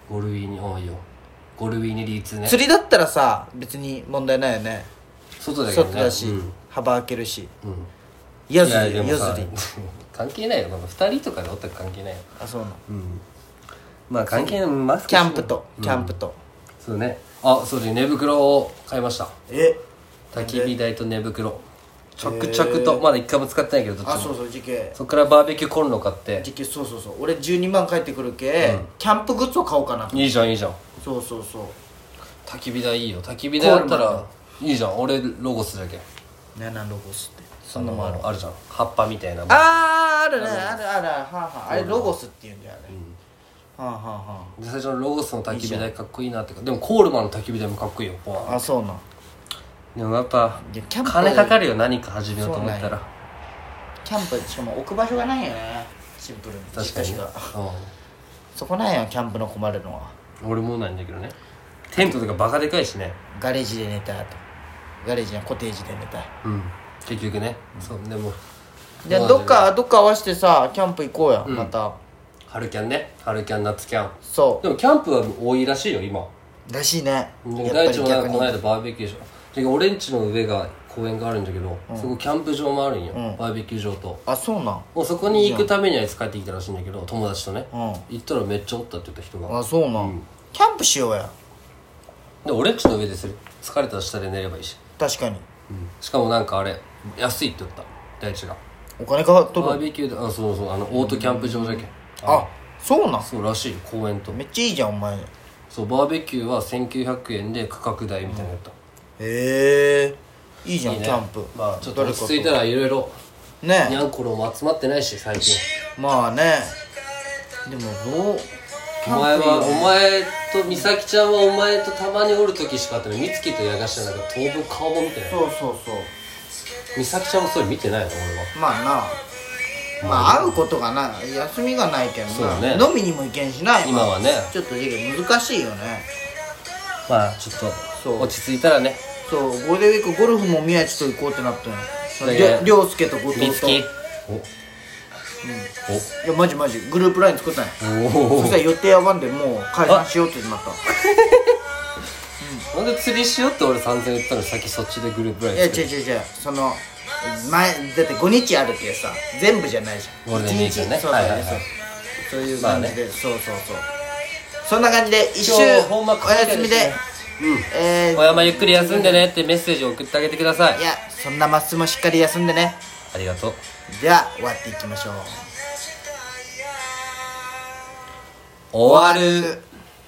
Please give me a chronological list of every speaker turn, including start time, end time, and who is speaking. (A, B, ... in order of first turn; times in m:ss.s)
0:00.1-0:01.0 A
0:01.6-0:02.6 A
0:02.4-0:04.9 B
0:05.4-0:06.5 A
0:05.7-0:07.5 B
0:07.6-0:07.9 A
0:08.5-0:09.5 B
0:08.6-0:12.2 A
0:12.4-0:12.8 B
0:12.9-0:13.2 A
0:14.1-0:16.1 A
0:14.3-0:16.4 B
0:16.8-0:19.3 A
0:19.5-0:19.8 B
0:20.3-0:21.6 A
0:20.4-0:20.7 B
0:22.2-0:23.0 B
0:22.2-0:24.3 A
0:24.0-0:25.0 B
0:25.0-0:26.5 A
0:26.4-0:30.4 B
0:28.6-0:28.9 A
0:30.1-0:30.8 A
0:31.0-0:31.8 B
0:32.5-0:36.0 A
0:33.6-0:34.3 B
0:36.5-0:38.3 B
0:37.7-0:39.8 A
0:39.5-0:43.0 B
0:40.4-0:40.8 A
0:41.7-0:42.1 A
0:42.9-0:43.2 A
0:43.8-0:44.6 B
0:44.6-0:48.6 A
0:45.5-0:45.9 B
0:48.4-0:49.0 B
0:50.0-0:53.0 A
0:50.6-0:51.6 B
0:52.4-0:53.0 B
0:54.0-0:57.5 B
0:56.7-0:57.9 A
0:58.5-1:00.1 B
1:00.4-1:01.4 A
1:01.9-1:03.2 A
1:03.4-1:04.4 B
1:05.0-1:06.3 B
1:06.4-1:08.4 A
1:09.0-1:12.0 B
1:09.1-1:09.7 A
1:11.4-1:11.7 A
1:12.5-1:16.3 A
1:14.2-1:14.6 B
1:16.7-1:18.6 B
1:17.4-1:24.2 A
1:21.9-1:22.1 B
1:23.1-1:23.4 B
1:24.2-1:25.7 B
1:24.9-1:30.2 A
1:27.7-1:28.1 B
1:29.5-1:31.3 B
1:32.4-1:34.8 A
1:35.0-1:35.4 B
1:35.7-1:38.6 A
1:39.0-1:39.8 B
1:39.5-1:42.5 A
1:40.9-1:43.3 B
1:43.2-1:44.4 A
1:44.3-1:45.3 B
1:45.7-1:48.7 A
1:48.2-1:48.5 B
1:49.2-1:52.6 B
1:50.8-1:53.2 A
1:53.6-1:54.0 B
1:53.8-1:55.6 A
1:56.0-1:56.8 B
1:57.6-1:58.5 B
1:59.0-2:05.4 A
1:59.0-2:00.0 B
2:05.3-2:06.1 B
2:07.0-2:08.5 A
2:08.5-2:09.2 B
2:10.0-2:10.6 A
2:10.0-2:16.1 B
2:12.3-2:12.9 A
2:13.8-2:14.5 A
2:17.1-2:19.0 A
2:18.0-2:18.3 B
2:19.2-2:23.8 B
2:22.2-2:22.7 A
2:23.3-2:24.5 A
2:25.4-2:27.8 B
2:27.8-2:28.6 A
2:28.3-2:30.8 B
2:30.9-2:31.6 A
2:32.4-2:32.7 B
2:32.7-2:35.9 A
2:35.5-2:41.7 B
2:40.2-2:41.6 A
2:42.2-2:43.9 B
2:42.6-2:43.0 A
2:44.6-2:47.0 B
2:45.4-2:50.8 A
2:47.7-2:49.3 B
2:50.8-2:52.8 B
2:53.1-2:53.6 A
2:53.9-2:55.5 B
2:58.7-2:59.6 A
2:58.8-2:59.6 B